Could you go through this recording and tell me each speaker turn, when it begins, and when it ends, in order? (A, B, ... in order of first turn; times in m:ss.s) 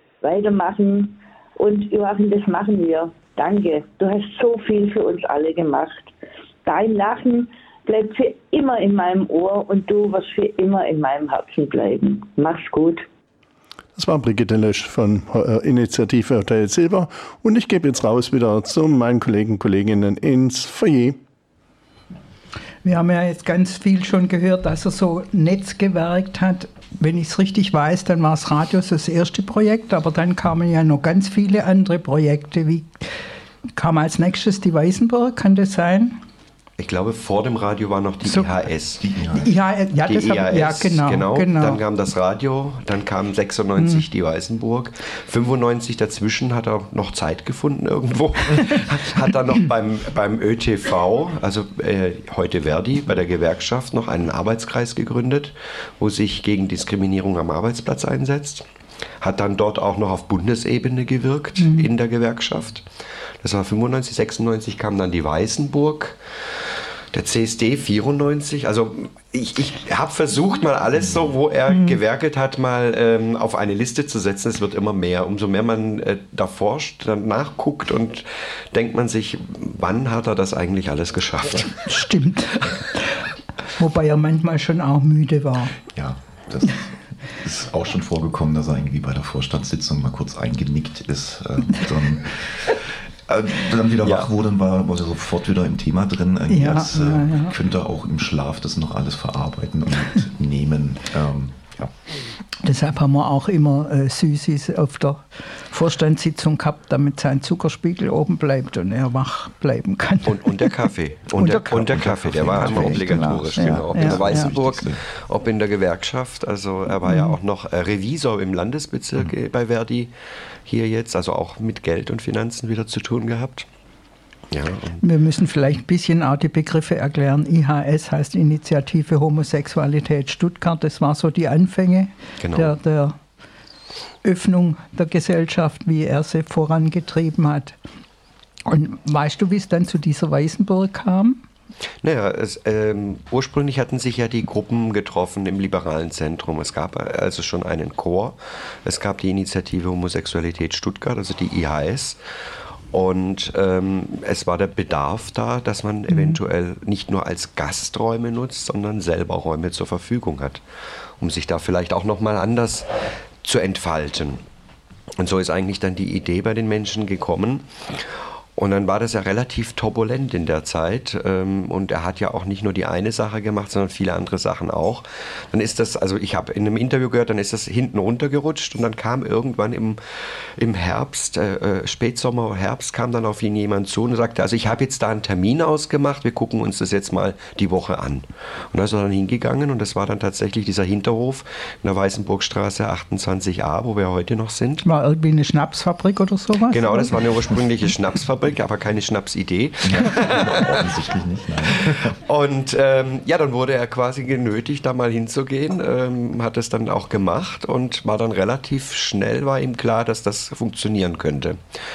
0:00.2-0:06.1 A
0:06.6-0:13.1 A
0:14.0-0:21.2 B
0:22.8-0:33.0 C
0:33.8-0:36.2 C
0:36.8-0:39.1 D
0:39.0-0:39.5 E
0:39.4-0:41.8 C
0:40.0-0:58.7 D
0:43.8-0:44.0 C
0:59.2-1:02.9 D
1:01.6-1:01.9 C
1:03.4-1:06.2 D
1:07.1-1:21.8 D
1:11.7-1:12.0 C
1:21.8-1:23.2 C
1:23.8-1:25.8 C
1:25.9-1:32.8 E
1:33.3-1:41.9 E
1:34.0-1:34.3 D
1:36.5-1:37.6 C
1:42.6-1:50.7 C
1:50.2-2:00.1 D
1:51.4-1:54.5 C
1:51.7-1:55.0 E
1:57.1-1:57.4 C
2:00.6-2:03.7 D
2:04.5-2:05.0 D
2:05.0-2:13.2 C
2:12.4-2:12.8 D
2:14.2-2:17.8 C
2:18.7-2:21.4 C
2:22.0-2:32.2 D
2:32.9-2:40.6 D
2:36.1-2:36.4 C
2:41.2-2:42.9 D
2:43.4-2:44.4 D
2:45.2-2:47.7 D
2:48.6-3:00.0 D
3:00.6-3:14.8 D
3:14.8-3:17.2 C
3:16.7-3:20.9 D
3:19.8-3:22.2 E
3:22.2-3:31.6 D